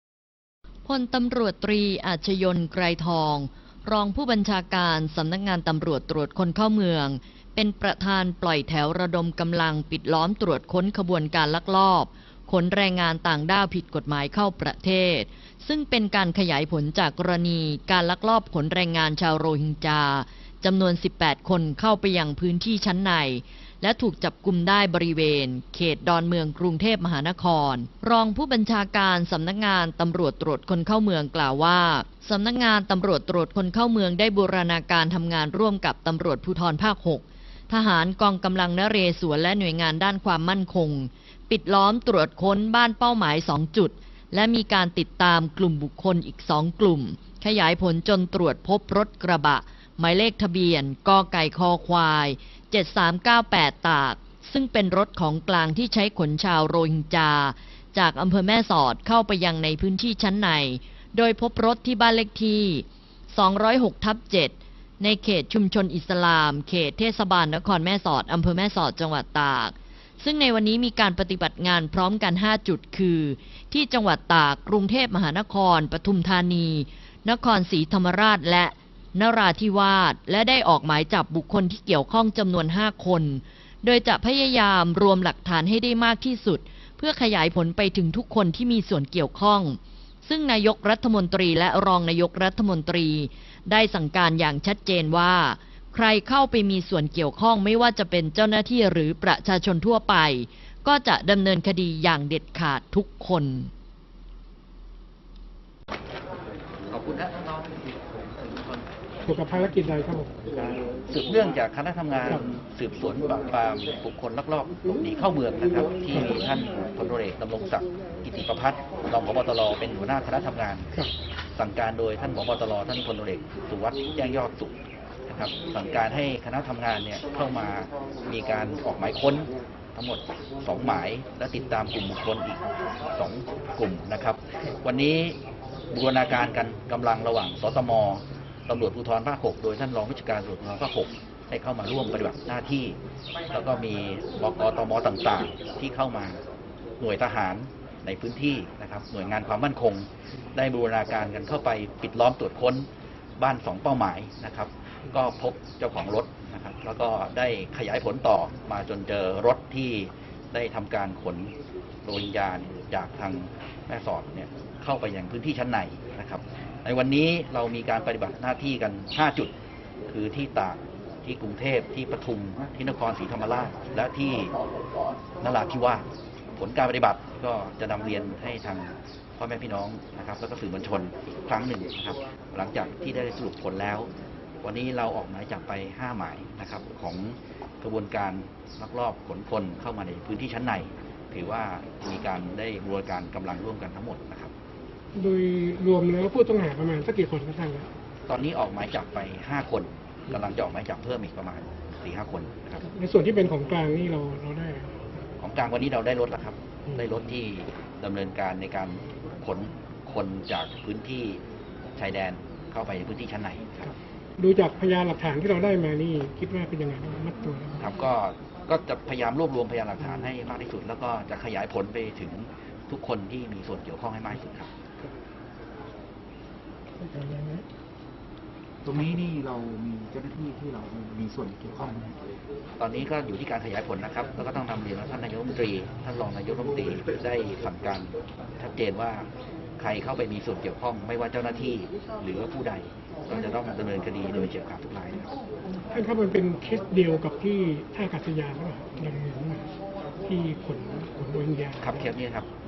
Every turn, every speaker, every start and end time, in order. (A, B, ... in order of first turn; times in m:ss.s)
0:00.9-1:43.7 A
1:46.9-1:48.8 B
1:49.2-1:50.3 C
1:50.5-2:00.9 B
2:01.6-2:04.8 B
2:05.3-2:12.6 B
2:13.2-2:15.4 B
2:15.9-2:23.0 B
2:23.5-2:26.4 B
2:27.0-2:32.9 B
2:33.4-2:41.5 B
2:42.0-2:49.5 B
2:50.1-2:54.5 B
2:55.4-3:04.1 B
3:04.6-3:14.5 B
3:15.1-3:17.9 C
3:18.3-3:22.8 B
3:22.8-3:25.0 C
3:25.4-3:31.4 B
3:32.0-3:33.9 B
3:34.4-3:37.9 C
3:37.8-3:44.7 B
3:47.0-3:47.6 C
3:48.8-3:52.2 D
3:52.8-3:59.3 B
3:59.8-4:05.3 B
4:05.9-4:09.6 C
4:10.3-4:12.0 C
4:11.8-4:12.5 B